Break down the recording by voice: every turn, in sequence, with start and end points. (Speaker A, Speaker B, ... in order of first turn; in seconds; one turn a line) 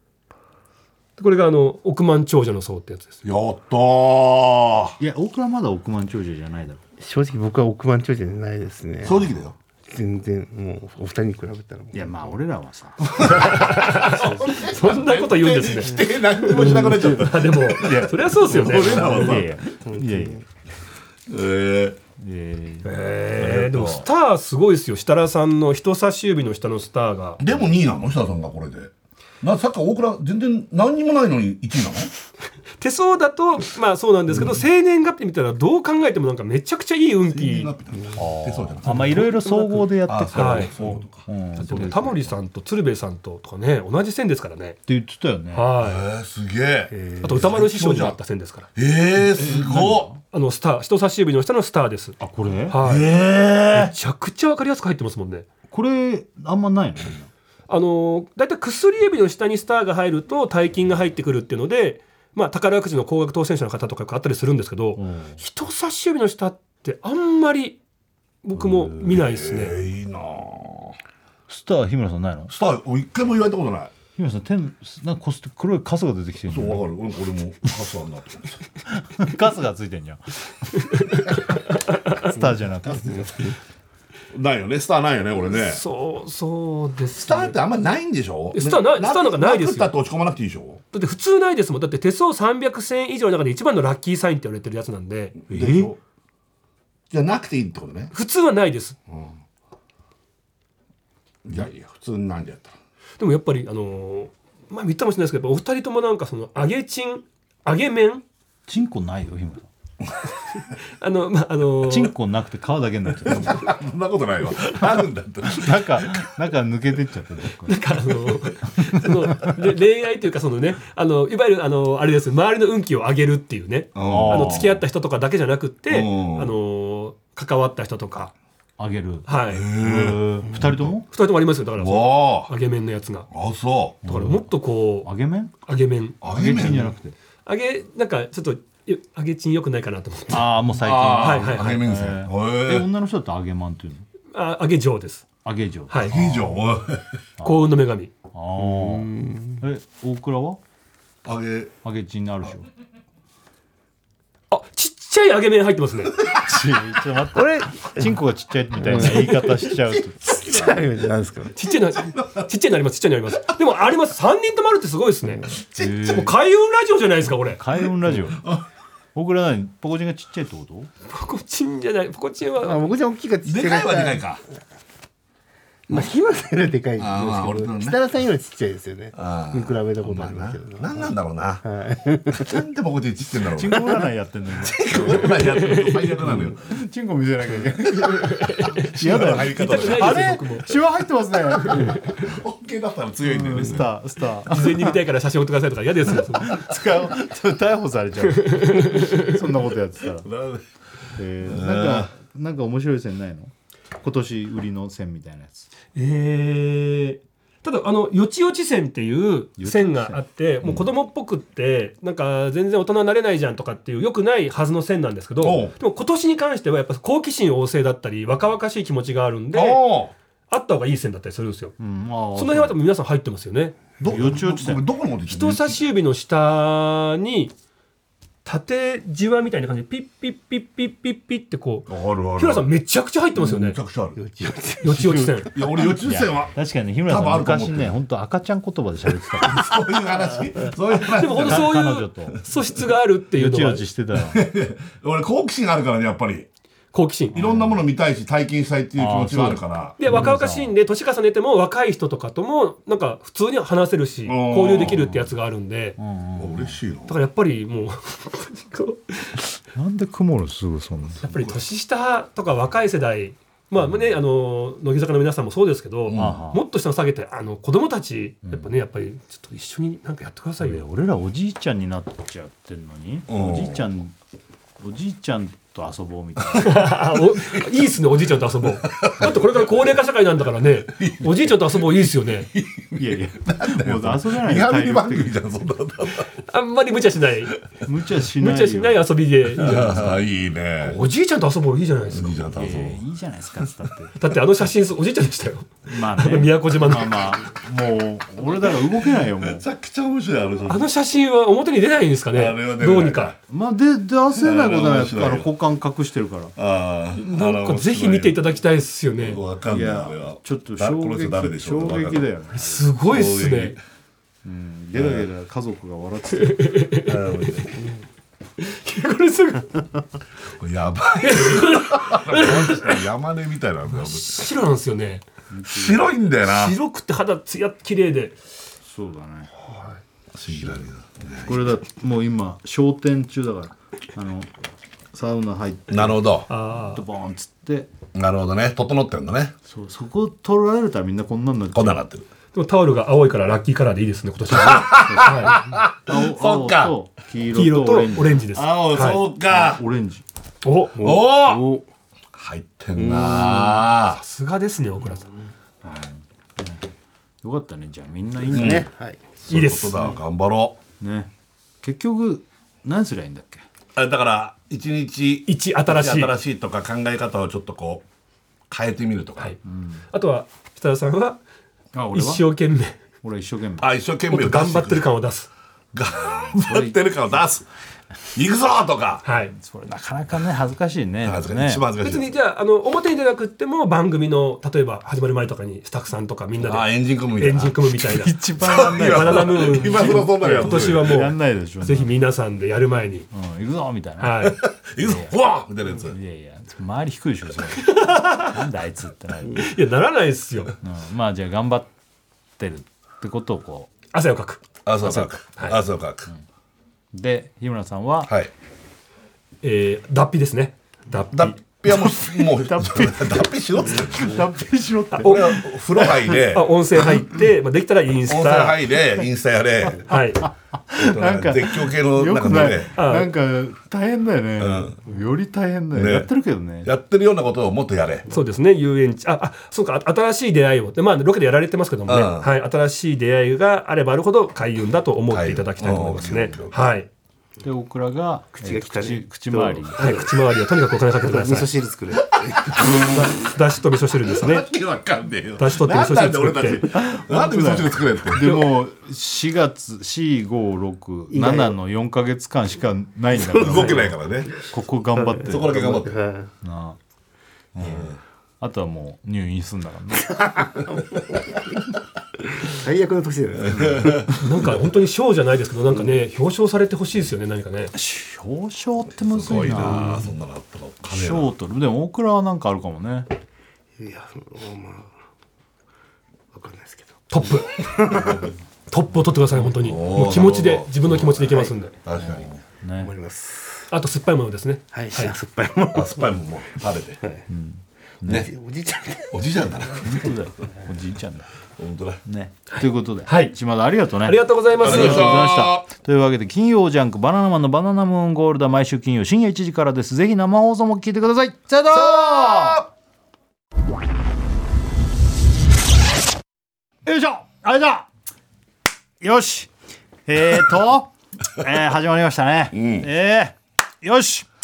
Speaker A: 1.2-3.2
Speaker B: 3.2-5.0
Speaker C: 5.0-6.8
Speaker D: 7.0-9.2
Speaker B: 9.0-9.6
Speaker D: 9.9-12.4
Speaker C: 11.9-13.4
Speaker A: 13.2-19.3
Speaker B: 13.3-19.6
Speaker D: 16.5-17.1
Speaker C: 18.7-20.4
Speaker D: 19.2-20.4
Speaker B: 21.3-22.0
Speaker C: 22.2-22.9
Speaker A: 22.9-27.4
Speaker B: 23.4-24.1
Speaker B: 27.4-28.9
Speaker B: 29.4-32.1
Speaker A: 32.8-37.7
Speaker B: 34.3-34.6
Speaker B: 37.3-39.3
Speaker C: 38.1-42.3
Speaker A: 39.4-39.8
Speaker B: 40.1-42.0
Speaker A: 40.3-40.9
Speaker A: 41.6-44.8
Speaker C: 44.9-45.7
Speaker A: 45.5-46.0
Speaker B: 45.8-48.2
Speaker C: 47.0-47.2
Speaker A: 47.2-48.7
Speaker B: 48.8-50.1
Speaker C: 49.2-50.2
Speaker A: 50.3-53.1
Speaker C: 52.2-52.8
Speaker B: 52.8-53.9
Speaker A: 53.7-55.5
Speaker C: 55.7-57.3
Speaker A: 57.7-67.8
Speaker C: 65.0-65.4
Speaker A: 68.4-69.8
Speaker C: 68.6-69.2
Speaker B: 69.1-71.0
Speaker C: 71.5-72.5
Speaker B: 72.5-73.9
Speaker C: 74.2-76.9
Speaker B: 76.5-78.6
Speaker C: 78.9-80.3
Speaker C: 82.2-83.6
Speaker D: 82.9-83.4
Speaker B: 84.3-85.8
Speaker A: 85.5-87.6
Speaker B: 87.2-90.8
Speaker A: 88.5-89.9
Speaker A: 90.9-95.7
Speaker B: 95.5-96.0
Speaker C: 95.5-95.9
Speaker B: 97.1-98.1
Speaker A: 98.1-99.0
Speaker B: 99.1-99.3
Speaker B: 101.5-102.8
Speaker A: 103.2-108.2
Speaker C: 108.7-109.7
Speaker A: 111.0-112.1
Speaker C: 111.8-113.8
Speaker B: 113.2-116.3
Speaker C: 115.5-117.8
Speaker A: 117.7-128.3
Speaker B: 124.0-124.8
Speaker C: 124.0-124.8
Speaker B: 125.9-126.5
Speaker C: 128.8-131.1
Speaker A: 129.3-129.7
Speaker B: 129.5-131.0
Speaker A: 131.1-133.3
Speaker B: 131.8-132.5
Speaker B: 133.3-134.0
Speaker C: 134.0-134.5
Speaker A: 134.1-135.1
Speaker C: 135.0-135.5
Speaker A: 135.7-136.2
Speaker B: 136.2-136.9
Speaker C: 136.2-137.2
Speaker A: 137.5-140.6
Speaker C: 140.3-144.1
Speaker B: 140.8-142.9
Speaker A: 141.1-141.8
Speaker A: 144.3-145.3
Speaker C: 145.4-146.6
Speaker B: 146.1-147.2
Speaker C: 147.4-147.6
Speaker A: 147.4-148.1
Speaker C: 148.3-150.6
Speaker D: 148.6-149.6
Speaker B: 151.2-151.7
Speaker C: 151.8-152.7
Speaker A: 154.5-156.2
Speaker C: 156.3-160.2
Speaker D: 157.3-158.2
Speaker D: 158.8-159.5
Speaker A: 159.0-159.6
Speaker D: 160.3-161.5
Speaker A: 161.6-165.5
Speaker B: 161.9-162.5
Speaker B: 165.6-166.2
Speaker C: 165.8-166.3
Speaker A: 166.1-167.6
Speaker C: 167.3-168.4
Speaker B: 167.8-168.7
Speaker C: 169.2-170.9
Speaker A: 171.1-172.9
Speaker D: 172.6-174.3
Speaker B: 173.4-174.4
Speaker D: 175.9-181.1
Speaker B: 177.0-178.0
Speaker B: 179.2-181.6
Speaker D: 181.6-182.6
Speaker B: 182.3-183.9
Speaker C: 183.6-185.4
Speaker B: 184.6-186.6
Speaker A: 185.2-186.1
Speaker C: 186.2-188.4
Speaker B: 187.9-190.3
Speaker A: 188.2-190.8
Speaker C: 188.9-192.0
Speaker A: 191.7-192.2
Speaker B: 191.7-193.9
Speaker C: 193.3-195.0
Speaker A: 194.5-196.6
Speaker C: 196.3-200.3
Speaker A: 198.3-199.4
Speaker B: 200.2-200.6
Speaker C: 201.2-205.7
Speaker B: 201.4-202.1
Speaker A: 205.9-219.8
Speaker C: 209.6-210.2
Speaker B: 215.4-215.7
Speaker B: 219.5-220.1
Speaker A: 220.5-221.8
Speaker C: 221.8-222.8
Speaker A: 222.4-223.8
Speaker B: 224.0-225.8
Speaker C: 224.0-224.8
Speaker A: 225.3-227.5
Speaker A: 228.4-233.8
Speaker B: 231.9-232.7
Speaker B: 233.4-234.2
Speaker D: 234.2-235.2
Speaker A: 234.8-235.5
Speaker C: 234.9-235.5
Speaker B: 235.6-236.6
Speaker C: 236.0-239.7
Speaker B: 237.1-238.0
Speaker B: 239.3-241.8
Speaker A: 241.1-243.8
Speaker C: 241.3-242.4
Speaker C: 243.4-244.4
Speaker B: 244.2-246.5
Speaker A: 246.9-247.4
Speaker B: 247.3-250.0
Speaker C: 247.3-247.8
Speaker C: 249.0-250.7
Speaker A: 250.0-256.0
Speaker B: 254.3-255.1
Speaker C: 255.0-255.3
Speaker C: 256.0-256.8
Speaker B: 256.4-257.1
Speaker A: 257.1-259.4
Speaker C: 259.8-261.2
Speaker B: 261.2-261.6
Speaker A: 261.2-270.9
Speaker B: 266.1-266.4
Speaker C: 266.1-266.6
Speaker C: 268.4-268.7
Speaker C: 270.6-274.1
Speaker B: 273.3-273.9
Speaker C: 274.8-276.9
Speaker A: 276.6-282.5
Speaker B: 277.3-277.7
Speaker B: 278.8-279.7
Speaker B: 280.9-281.8
Speaker B: 282.4-286.3
Speaker C: 282.9-285.3
Speaker A: 286.5-287.6
Speaker C: 287.9-289.1
Speaker A: 288.4-290.2
Speaker B: 289.6-291.0
Speaker C: 289.7-290.0
Speaker A: 290.8-292.5
Speaker B: 292.1-293.0
Speaker C: 292.6-294.1
Speaker A: 294.2-297.4
Speaker C: 295.9-299.6
Speaker B: 299.2-300.9
Speaker A: 300.7-303.4
Speaker B: 302.3-303.4
Speaker C: 303.5-306.5
Speaker B: 304.3-305.5
Speaker B: 306.6-308.4
Speaker A: 307.2-309.4
Speaker B: 309.2-312.3
Speaker C: 309.7-312.9
Speaker A: 312.5-313.8
Speaker B: 313.1-313.8
Speaker C: 314.4-316.8
Speaker B: 314.9-315.3
Speaker A: 316.5-317.2
Speaker B: 317.1-317.9
Speaker A: 318.6-319.8
Speaker B: 320.6-324.5
Speaker A: 321.2-323.0
Speaker A: 323.9-325.2
Speaker C: 325.5-326.0
Speaker B: 325.7-326.8
Speaker A: 326.4-328.4
Speaker C: 328.9-329.5
Speaker A: 329.7-330.0
Speaker B: 330.3-331.7
Speaker C: 331.4-334.5
Speaker C: 335.1-336.3
Speaker B: 335.9-336.5
Speaker A: 336.5-337.0
Speaker C: 336.9-337.9
Speaker B: 338.1-339.5
Speaker C: 339.7-342.0
Speaker B: 341.7-342.3
Speaker A: 342.5-345.6
Speaker B: 344.5-346.9
Speaker C: 344.9-348.4
Speaker A: 347.6-349.2
Speaker B: 348.5-349.8
Speaker C: 349.5-350.2
Speaker A: 350.6-351.0
Speaker D: 351.0-351.9
Speaker B: 351.0-351.6
Speaker B: 352.3-354.2
Speaker D: 353.0-353.8
Speaker A: 354.1-355.3
Speaker C: 355.8-356.8
Speaker C: 357.4-358.9
Speaker D: 358.5-359.2
Speaker B: 358.5-358.9
Speaker B: 359.4-360.8
Speaker A: 359.5-360.2
Speaker C: 361.0-361.3
Speaker C: 361.8-363.6
Speaker B: 364.0-368.0
Speaker A: 365.5-366.3
Speaker B: 368.7-369.6
Speaker C: 369.6-370.0
Speaker A: 370.1-371.4
Speaker C: 371.9-372.5
Speaker A: 372.1-373.0
Speaker C: 373.2-373.9
Speaker B: 373.8-375.1
Speaker A: 374.3-375.5
Speaker B: 375.9-377.7
Speaker C: 376.5-377.0
Speaker B: 378.3-379.2
Speaker A: 379.2-379.5
Speaker C: 379.6-381.8
Speaker B: 381.2-382.3
Speaker A: 382.0-393.3
Speaker B: 386.6-391.3
Speaker C: 388.1-392.1
Speaker C: 393.3-394.5
Speaker A: 394.2-394.6
Speaker B: 394.4-396.2
Speaker C: 395.0-395.3
Speaker C: 396.1-399.7
Speaker A: 397.8-398.5
Speaker A: 399.5-400.7
Speaker C: 400.8-401.9
Speaker C: 402.6-403.9
Speaker A: 404.1-404.6
Speaker B: 404.9-406.3
Speaker C: 405.0-405.4
Speaker C: 407.1-408.3
Speaker A: 409.6-411.7
Speaker B: 411.3-414.5
Speaker C: 412.7-413.4
Speaker C: 413.9-415.5
Speaker A: 415.1-418.9
Speaker B: 415.2-417.3
Speaker B: 418.3-420.1
Speaker A: 420.1-420.4
Speaker C: 420.4-426.9
Speaker B: 420.9-422.9
Speaker A: 423.0-423.3
Speaker B: 424.6-425.0
Speaker B: 425.9-426.3
Speaker B: 426.8-428.3
Speaker A: 428.3-437.1
Speaker B: 432.1-432.5
Speaker B: 435.3-436.9
Speaker C: 437.6-440.0
Speaker D: 438.6-440.6
Speaker A: 440.0-441.8
Speaker D: 441.2-443.4
Speaker B: 442.6-443.2
Speaker A: 442.8-444.7
Speaker B: 444.3-448.7
Speaker A: 445.6-446.8
Speaker C: 446.8-456.0
Speaker D: 451.3-451.8
Speaker D: 453.4-453.9
Speaker B: 453.5-454.6
Speaker A: 453.7-454.0
Speaker D: 455.3-456.5
Speaker B: 455.4-456.2
Speaker C: 456.6-457.0
Speaker C: 457.8-460.5
Speaker B: 457.8-458.2
Speaker D: 460.9-461.6
Speaker D: 462.6-464.4
Speaker B: 463.6-464.3
Speaker C: 463.7-464.1
Speaker A: 464.3-467.9
Speaker C: 467.9-470.3
Speaker B: 469.2-471.5
Speaker C: 471.1-473.3
Speaker D: 474.0-475.1
Speaker D: 476.5-478.5
Speaker A: 477.3-478.3
Speaker A: 478.9-482.0
Speaker B: 479.8-482.6
Speaker C: 482.2-483.1
Speaker D: 483.0-483.9
Speaker A: 483.9-485.4
Speaker D: 484.9-486.4
Speaker B: 485.9-487.2
Speaker C: 487.5-488.5
Speaker D: 488.3-489.7
Speaker B: 489.3-490.3
Speaker C: 490.0-491.5
Speaker B: 491.8-492.2
Speaker C: 492.2-502.8
Speaker A: 492.7-493.5
Speaker A: 494.2-495.5
Speaker B: 494.8-495.9
Speaker B: 501.9-502.9
Speaker C: 507.1-508.1
Speaker C: 509.2-509.7
Speaker C: 510.3-514.5
Speaker B: 512.7-513.1